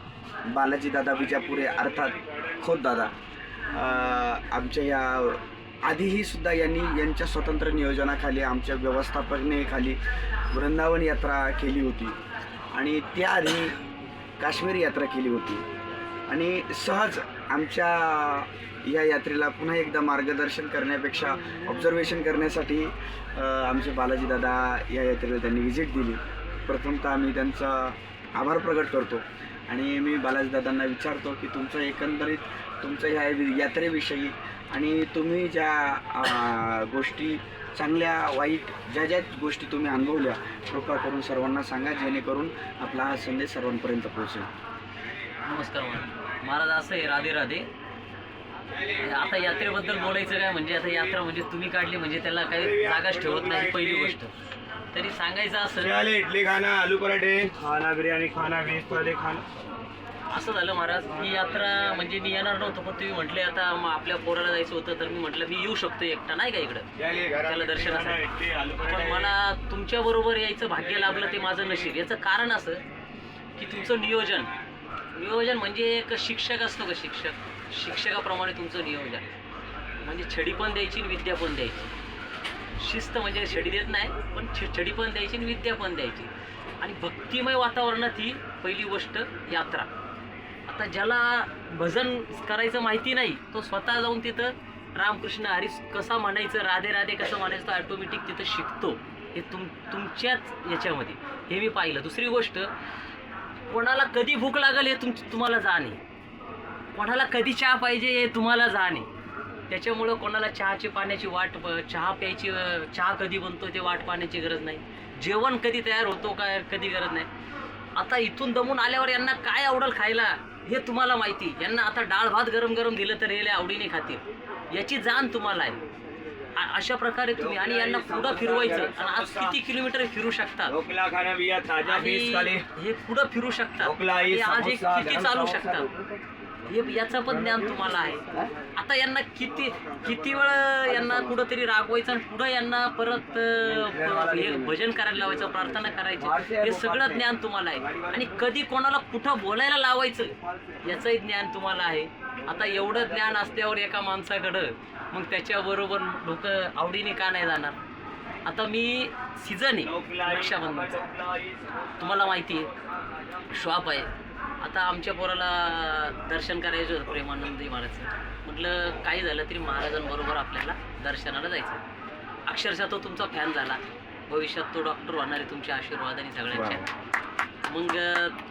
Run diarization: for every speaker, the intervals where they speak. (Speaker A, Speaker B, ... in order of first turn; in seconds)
Speaker A: 0.5-3.1, 3.7-10.0, 10.5-12.2, 12.7-13.8, 14.4-15.6, 16.3-44.5, 176.5-176.8
Speaker B: 1.3-2.5, 52.6-54.1, 55.8-59.4, 67.0-69.3, 127.3-129.6, 130.7-132.6, 133.8-135.9, 143.7-144.7, 146.2-147.2, 147.8-148.2, 159.8-161.7
Speaker C: 45.4-47.7, 48.9-54.3, 54.9-55.9, 60.3-72.8, 73.6-74.5, 75.1-79.3, 80.0-81.9, 82.8-89.9, 90.7-102.7, 103.7-106.0, 106.9-109.1, 109.7-117.3, 118.0-125.8, 126.5-130.7, 131.8-135.9, 136.7-157.8, 158.4-161.1, 162.0-162.7, 163.5-171.8, 172.4-176.9, 177.7-178.3